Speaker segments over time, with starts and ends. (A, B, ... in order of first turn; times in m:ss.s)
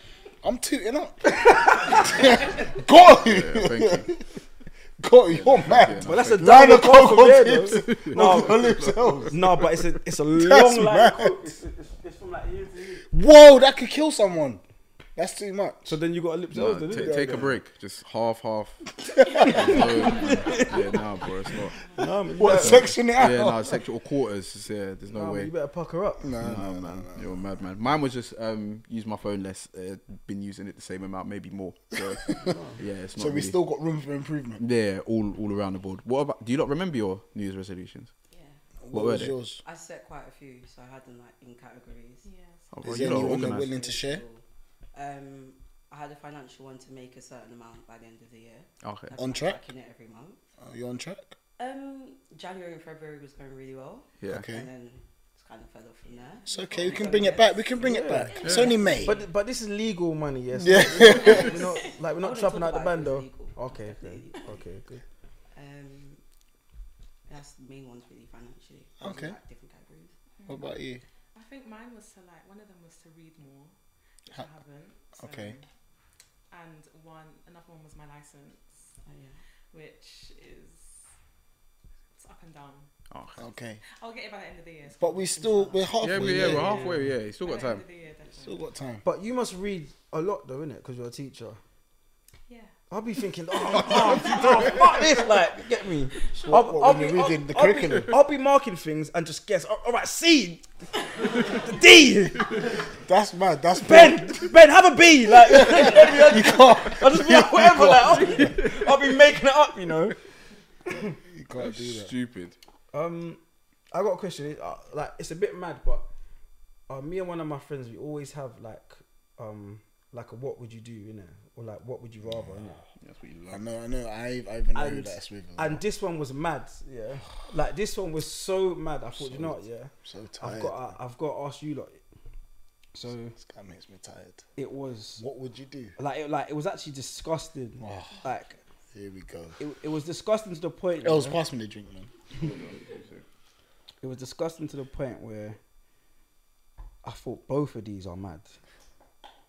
0:00.4-0:04.2 A
0:03.1-0:04.1 B
0:05.0-0:09.6 A
0:05.3-0:06.8 B
0:06.0-0:13.0 C
0:07.6-0:09.4 B
0:10.3-0:11.5 A
0:13.1-0:14.6 A
0:15.1-0:16.0 A
0:15.8-0:17.6 C
0:16.5-0:18.8 B
0:16.9-0:17.6 A
0:19.1-0:19.9 A
0:19.4-0:21.0 C
0:19.4-0:21.8 B
0:21.9-0:23.0 C
0:22.4-0:23.7 A
0:22.4-0:25.5 B
0:25.1-0:26.3 C
0:26.2-0:27.4 A
0:26.4-0:32.3 B
0:32.4-0:32.8 C
0:32.8-0:33.6 B
0:33.1-0:34.6 A
0:34.6-0:38.1 B
0:38.3-0:38.6 D
0:38.8-0:39.6 A
0:38.9-0:39.4 B
0:39.6-0:42.3 D
0:42.2-0:42.9 E
0:42.7-0:43.7 B
0:42.8-0:44.2 A
0:43.0-0:44.4 D
0:44.9-0:50.4 D
0:48.8-0:49.1 B
0:49.2-0:49.6 A
0:50.6-0:51.3 A
0:51.6-0:57.7 D
0:54.2-0:54.5 B
0:54.3-0:54.7 A
0:56.0-0:57.5 E
0:56.5-0:59.2 A
0:57.8-0:58.4 C
0:58.3-0:59.2 D
0:58.4-0:58.7 B
0:59.0-1:05.0 C
1:00.6-1:01.5 A
1:01.0-1:04.6 D
1:05.5-1:06.2 D
1:07.3-1:10.1 D
1:09.0-1:09.4 A
1:10.4-1:10.7 E
1:10.5-1:11.0 A
1:11.3-1:13.7 E
1:14.2-1:15.6 E
1:15.2-1:15.6 A
1:16.5-1:19.0 E
1:19.0-1:19.4 D
1:19.7-1:21.1 E
1:22.1-1:28.6 E
1:23.1-1:23.4 B
1:23.4-1:23.8 A
1:25.0-1:26.9 A
1:25.6-1:25.9 D
1:26.0-1:27.8 B
1:26.3-1:27.1 C
1:28.4-1:29.0 A
1:29.0-1:31.6 C
1:32.5-1:32.7 E
1:32.9-1:40.6 C
1:34.1-1:34.7 E
1:36.2-1:36.8 E
1:36.4-1:38.2 A
1:41.2-1:42.6 C
1:43.0-1:44.4 A
1:43.8-1:50.1 C
1:45.4-1:48.5 A
1:47.9-1:49.0 B
1:50.9-1:51.2 C
1:51.3-1:52.1 A
1:51.6-1:52.5 B
1:52.9-1:53.4 C
1:53.9-1:56.0 C
1:56.9-2:02.8 C
2:03.0-2:03.6 B
2:03.5-2:05.8 A
2:04.7-2:12.0 C
2:09.1-2:10.8 A
2:12.9-2:13.3 C
2:13.3-2:14.4 A
2:14.6-2:15.2 C
2:15.2-2:16.0 A
2:16.0-2:18.6 C
2:17.8-2:18.1 A
2:18.9-2:19.6 A
2:19.6-2:21.4 C
2:21.0-2:22.1 A
2:22.3-2:23.2 B
2:24.0-2:25.6 C
2:27.0-2:28.5 C